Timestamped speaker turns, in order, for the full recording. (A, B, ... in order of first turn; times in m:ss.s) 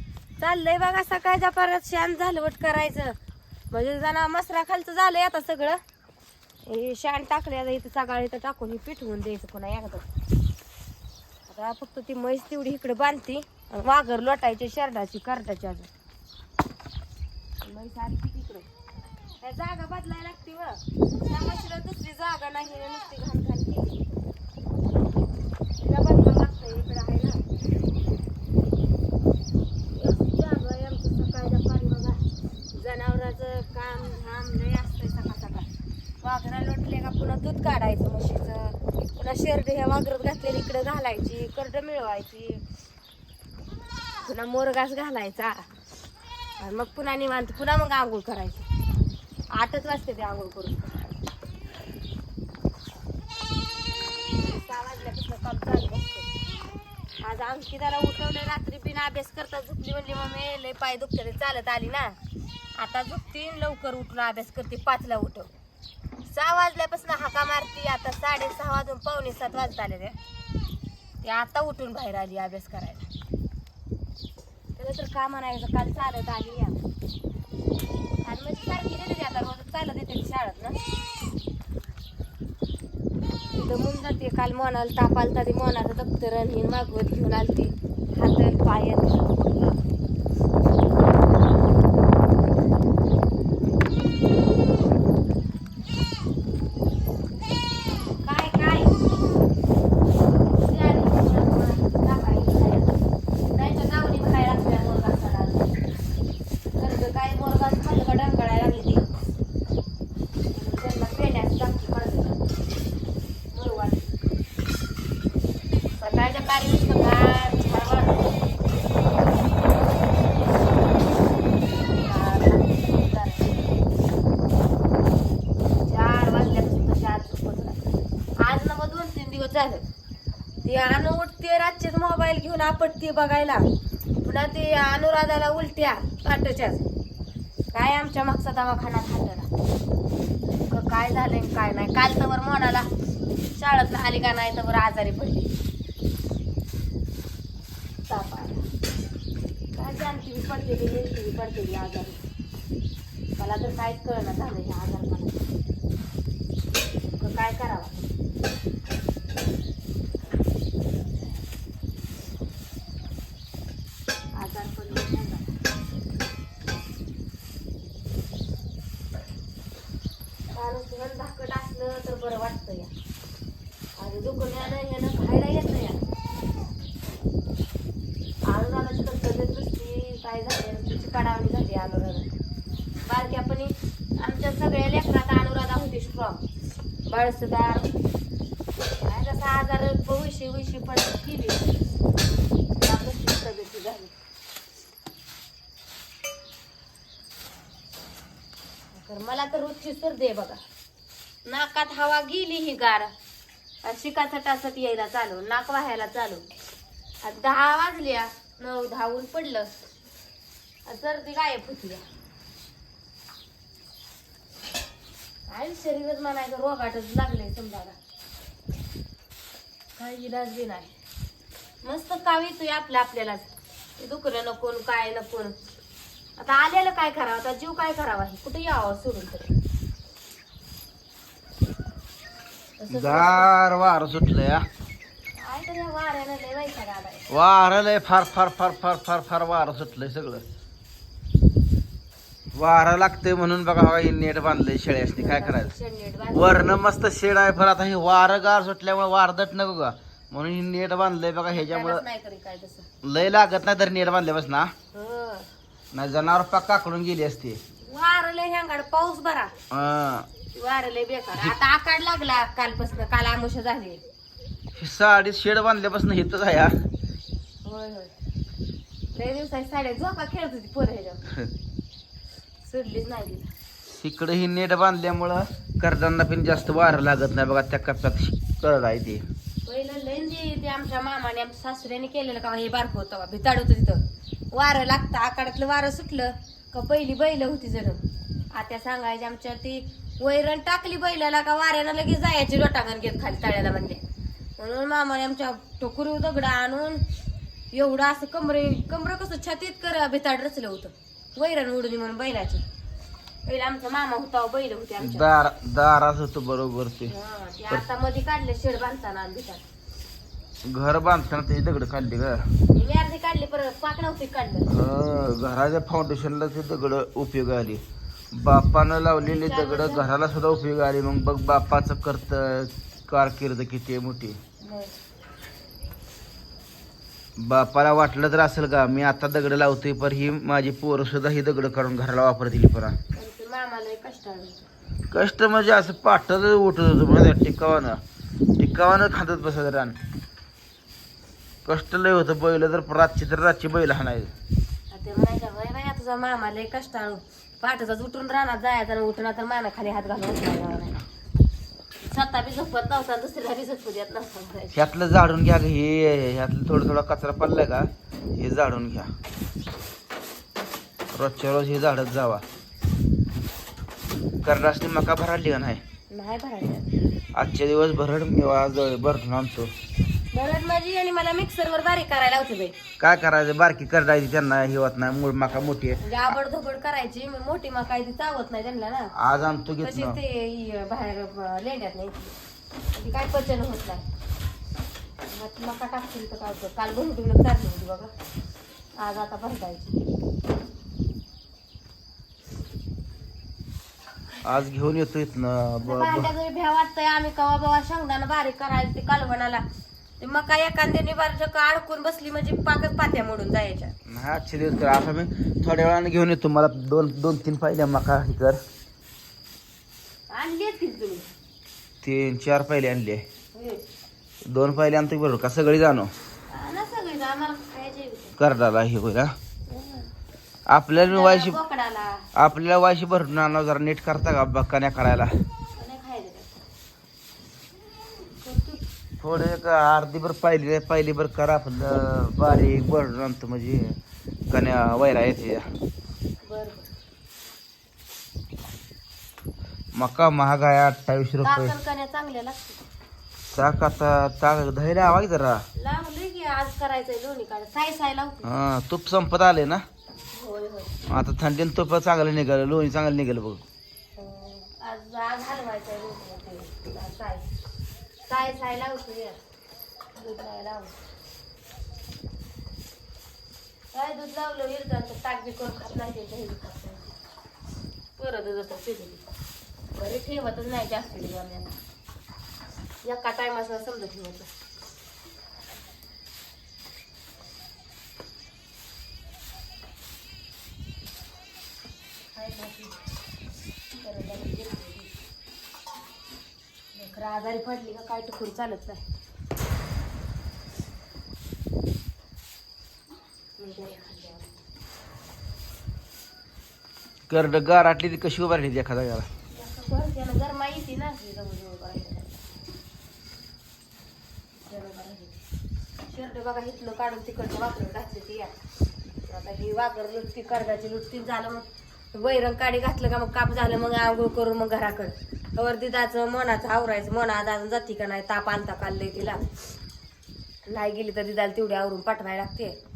0:00.4-0:03.2 A
0:03.7-0:05.8 A
0:06.6-0:10.0 A
0:11.5-0:15.9 A
0:17.6-0:18.7 A
0:19.4-0:24.0 A
0:25.8-0:27.4 A
0:30.0-0:32.2 A
0:32.7-0:35.7 A
0:36.2-0:42.6 A
0:44.2-0:45.7 A
0:46.6-0:48.7 A
0:49.5-0:51.0 A
0:54.3-0:56.3 A
0:57.2-1:02.2 A
1:02.8-1:05.5 A
1:06.3-1:10.2 A
1:11.2-1:13.1 A
1:14.8-1:16.8 A
1:18.2-1:20.8 A
1:23.5-1:29.8 A
1:38.2-1:39.1 A
1:40.4-1:42.9 A
1:43.6-1:45.7 A
1:46.8-1:49.1 A
1:50.5-1:52.4 A
1:53.5-1:54.2 A
1:56.0-1:58.4 A
2:02.0-2:03.7 A
2:05.7-2:07.9 A
2:08.4-2:09.8 A
2:10.6-2:13.7 A
2:14.2-2:16.8 A
2:17.7-2:19.5 A
2:20.7-2:25.5 A
2:28.1-2:28.6 A
2:29.7-2:32.2 A
2:33.4-2:35.4 A
2:37.2-2:38.1 A
2:44.4-2:45.5 A
2:50.5-2:52.9 A
2:54.0-2:56.0 A
2:58.4-3:02.3 A
3:03.1-3:06.4 A
3:07.1-3:07.9 A
3:09.0-3:11.8 A
3:12.8-3:14.1 A
3:18.9-3:20.6 A
3:21.5-3:23.1 A
3:23.8-3:26.4 A
3:27.2-3:29.7 A
3:30.9-3:32.0 A
3:35.5-3:38.0 A
3:40.0-3:40.9 A
3:41.8-3:43.5 A
3:44.0-3:45.5 A
3:46.4-3:49.5 A
3:52.8-3:53.5 A
3:52.9-3:54.6 B
3:55.4-3:57.2 A
3:57.3-4:00.4 B
4:02.6-4:05.7 B
4:05.2-4:06.8 A
4:06.3-4:12.0 B
4:11.5-4:12.9 A
4:13.0-4:14.7 B
4:14.9-4:15.5 A
4:15.9-4:17.6 B
4:17.8-4:19.5 A
4:19.7-4:20.3 B
4:20.5-4:24.0 A
4:24.8-4:26.7 B
4:27.6-4:28.1 A
4:29.1-4:31.2 A
4:32.7-4:33.5 A
4:34.0-4:39.2 B
4:39.7-4:48.0 A
4:48.5-4:54.0 A
4:54.6-4:57.0 A
4:57.7-5:02.6 A
5:03.5-5:05.3 A
5:05.0-5:07.1 B
5:07.1-5:09.6 A
5:10.6-5:12.4 B
5:12.7-5:14.7 A
5:14.7-5:17.8 B
5:18.3-5:24.4 B
5:19.2-5:20.0 A
5:24.6-5:25.0 A
5:27.4-5:33.0 B
5:33.1-5:34.6 A
5:35.1-5:38.0 B
5:38.6-5:40.0 B
5:41.7-5:44.3 B
5:44.9-5:51.0 A
5:52.1-5:54.8 A
5:54.8-5:59.1 B
6:01.2-6:02.4 B
6:04.4-6:05.8 B
6:06.1-6:06.9 A
6:07.4-6:09.7 B
6:10.3-6:12.8 A
6:13.0-6:16.0 B
6:16.0-6:19.1 A
6:19.2-6:20.2 B
6:19.8-6:22.4 A
6:22.9-6:24.1 A
6:25.3-6:28.1 A
6:29.0-6:30.0 A
6:34.4-6:36.3 B
6:35.8-6:39.6 A
6:40.2-6:44.0 A
6:44.1-6:48.6 B
6:50.3-6:51.3 A
6:52.0-6:53.2 B
6:53.5-6:53.9 A
6:54.4-6:56.1 B
6:56.5-6:58.4 A
6:58.4-6:59.3 B
6:59.7-7:00.1 A
7:00.7-7:01.6 B
7:01.0-7:02.3 A
7:02.4-7:05.3 B
7:05.8-7:06.6 A
7:08.4-7:08.8 A
7:09.2-7:14.0 B
7:14.5-7:15.7 B
7:16.4-7:16.9 A
7:20.0-7:21.8 B
7:21.4-7:22.8 A
7:23.5-7:25.6 B
7:25.8-7:28.5 A
7:28.4-7:29.8 B
7:30.3-7:30.9 A
7:31.1-7:33.6 B
7:34.2-7:37.5 A
7:38.3-7:39.4 A
7:40.2-7:40.9 A
7:43.9-7:47.1 A
7:48.2-7:49.2 A
7:50.0-7:51.8 A
7:53.0-7:54.5 A
8:02.4-8:03.0 A
8:04.0-8:05.1 A
8:07.0-8:09.0 A
8:13.6-8:14.6 A
8:17.3-8:19.3 B
8:19.5-8:22.4 A
8:24.7-8:25.4 A
8:26.1-8:28.6 A
8:29.3-8:39.5 A
8:40.7-8:42.8 A